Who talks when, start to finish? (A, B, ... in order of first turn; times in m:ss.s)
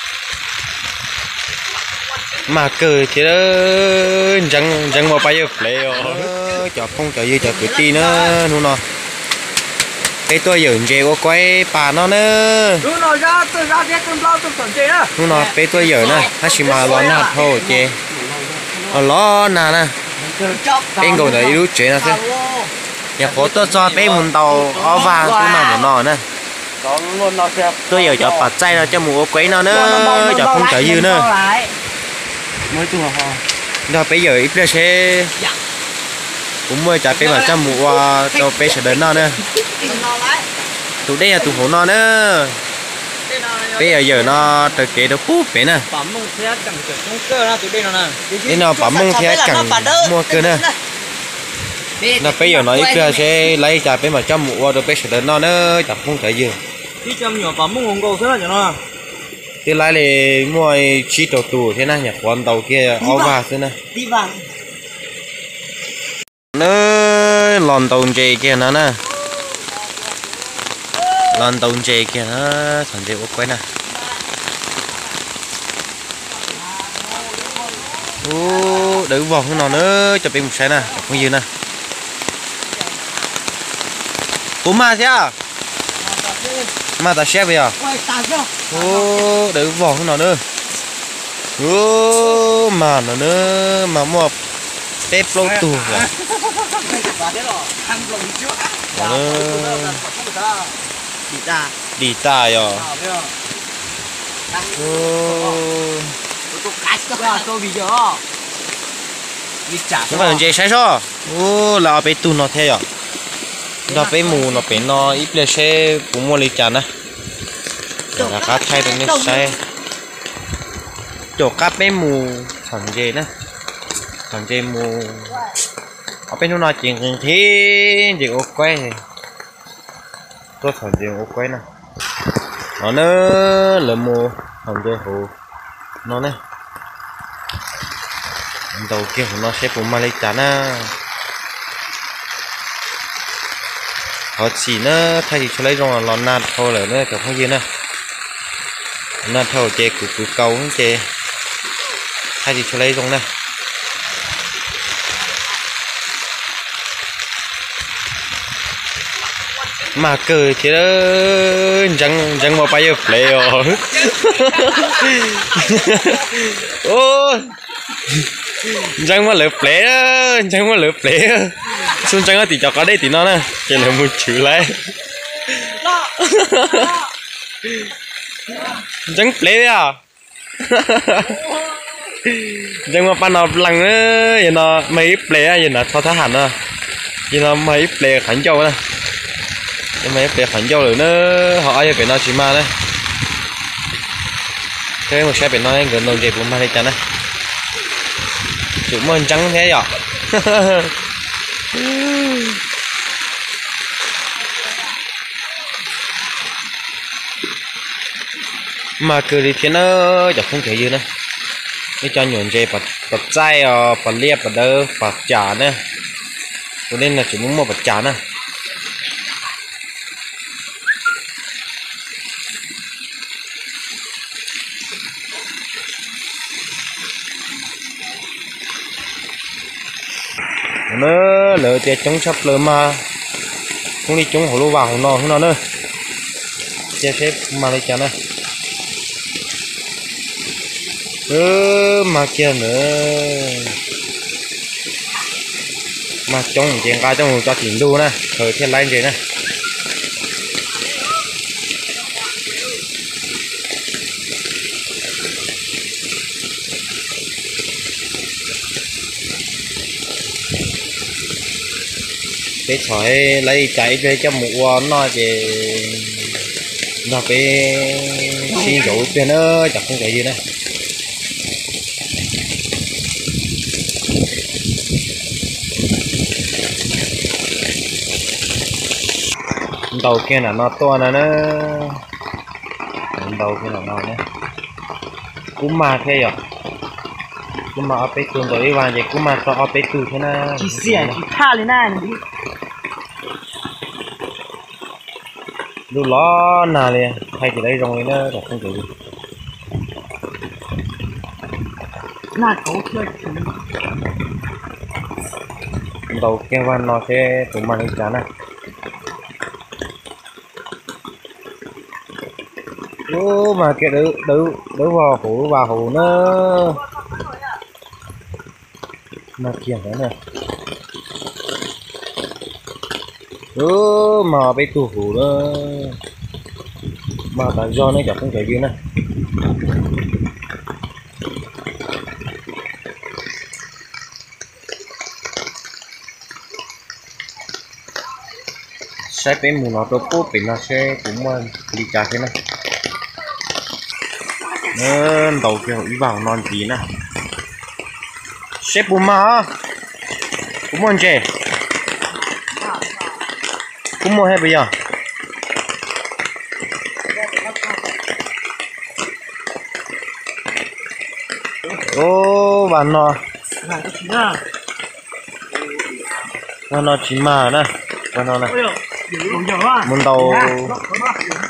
0:02.5-0:08.8 A
0:07.6-0:08.1 B
0:10.3-0:12.9 A
0:12.9-0:15.0 B
0:15.2-0:18.0 A
0:16.4-0:17.3 B
0:18.9-0:20.0 A
0:20.3-0:21.5 B
0:21.0-0:22.2 A
0:23.2-0:26.2 A
0:24.9-0:25.5 B
0:27.9-0:31.3 A
0:29.7-0:30.5 B
0:31.3-0:31.6 B
0:33.9-0:35.3 A
0:36.7-0:39.4 A
0:37.2-0:37.7 B
0:39.8-0:40.2 B
0:41.1-0:42.6 A
0:43.3-0:43.9 B
0:43.8-0:45.9 A
0:45.9-0:50.7 B
0:48.5-0:50.7 A
0:52.2-0:56.6 A
0:57.0-0:58.8 B
0:59.6-1:03.8 A
1:03.9-1:04.3 B
1:06.5-1:09.0 A
1:11.3-1:13.6 A
1:18.2-1:21.5 A
1:24.6-1:25.4 A
1:27.0-1:27.8 A
1:27.8-1:28.1 B
1:28.7-1:30.4 A
1:31.6-1:34.4 A
1:35.1-1:36.1 A
1:37.0-1:38.3 B
1:38.9-1:40.0 A
1:39.0-1:40.6 B
1:41.3-1:41.7 B
1:42.0-1:42.9 A
1:42.9-1:43.3 B
1:44.7-1:46.2 A
1:47.2-1:48.2 B
1:49.7-1:50.4 B
1:50.1-1:52.9 A
1:53.9-1:56.9 A
1:58.2-1:59.6 A
2:01.4-2:03.3 A
2:04.3-2:05.4 A
2:06.3-2:09.0 A
2:10.6-2:11.6 A
2:12.8-2:15.3 A
2:16.0-2:16.4 A
2:18.7-2:20.9 A
2:24.4-2:27.6 A
2:29.2-2:31.0 A
2:32.4-2:33.3 A
2:39.9-2:47.5 A
2:48.6-2:54.8 A
2:55.5-2:57.0 A
2:59.1-3:00.0 A
3:00.6-3:01.5 A
3:02.1-3:06.6 A
3:07.3-3:08.8 A
3:10.0-3:12.7 A
3:15.1-3:17.0 A
3:18.8-3:20.9 A
3:21.7-3:22.5 A
3:29.0-3:31.0 A
3:32.0-3:35.8 A
3:36.9-3:38.2 A
3:50.9-3:53.0 A
3:54.1-3:55.6 A
3:57.0-3:58.1 A
4:01.3-4:03.7 A
4:06.3-4:09.2 A
4:22.7-4:26.3 A
4:27.0-4:30.4 A
4:39.9-4:42.0 A
4:43.2-4:44.2 A
4:45.6-4:46.4 A
4:47.7-4:51.2 A
4:55.9-4:58.9 A
5:06.1-5:08.2 A
5:13.1-5:16.8 A
5:19.4-5:20.2 A
5:23.6-5:26.0 A
5:27.3-5:28.8 A
5:39.1-5:42.3 A
5:44.7-5:46.8 A
5:48.6-5:49.5 A
5:50.7-5:51.3 A
5:54.0-5:54.7 A
6:01.8-6:03.2 A
6:06.7-6:08.6 A
6:09.8-6:10.8 A